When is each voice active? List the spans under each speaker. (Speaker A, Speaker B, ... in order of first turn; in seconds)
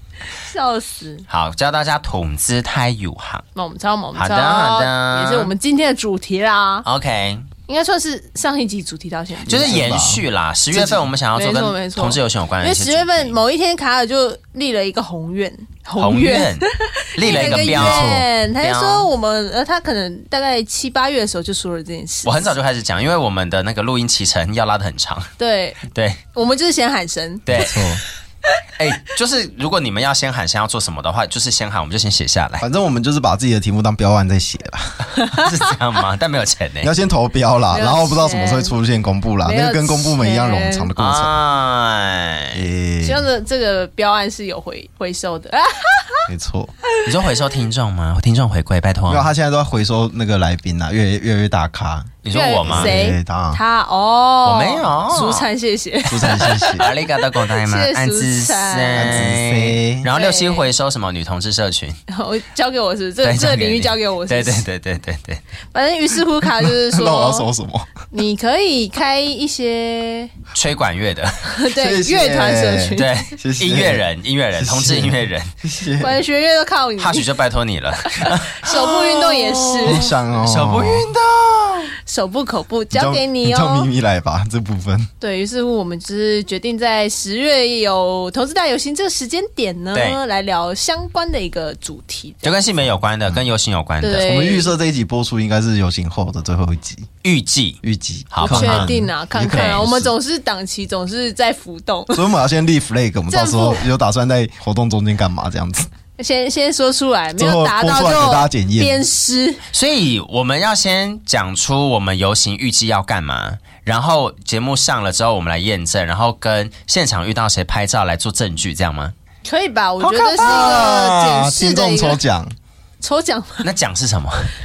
Speaker A: 0.3-1.2, 3.5-6.9, 7.7-9.9, 11.3-22.6, 25.4-25.8, 26.3-27.7, 35.2-35.6, 37.7-38.7, 39.4-40.9, 43.0-46.3, 52.3-59.4, 60.1-60.7, 62.1-64.6, 65.7-67.5, 68.1-70.3, 71.4-73.2, 76.0-77.3, 78.1-80.1, 82.1-83.9, 85.2-92.6, 94.0-94.7, 98.4-102.2, 103.3-103.9, 106.2-109.6, 119.5-122.2, 123.0-123.7
Speaker B: 1.3-3.5, 4.2-5.5, 6.8-7.5, 9.5-13.4, 16.0-19.1, 22.2-26.2, 27.5-27.8, 28.8-32.6, 35.3-36.9, 41.0-42.6, 47.0-49.3, 52.2-53.0, 54.5-55.5, 56.6-62.0, 63.2-65.4, 70.5-71.5, 73.0-75.5, 77.0-81.9, 89.9-90.2, 92.4-94.4, 97.2-97.8, 98.3-98.9, 99.5-99.8, 109.7-119.1, 120.4-120.7, 123.6-124.5
Speaker C: 9.5-11.1, 17.4-18.2, 27.5-28.0, 32.6-35.1, 36.8-41.3, 42.5-43.2, 46.3-46.7, 49.1-53.6, 56.1-56.9, 58.9-60.1, 66.6-67.9, 71.7-76.2, 79.8-81.1, 82.9-85.1, 94.2-97.1, 97.8-100.1, 102.1-105.9, 107.4-109.0, 120.1-122.5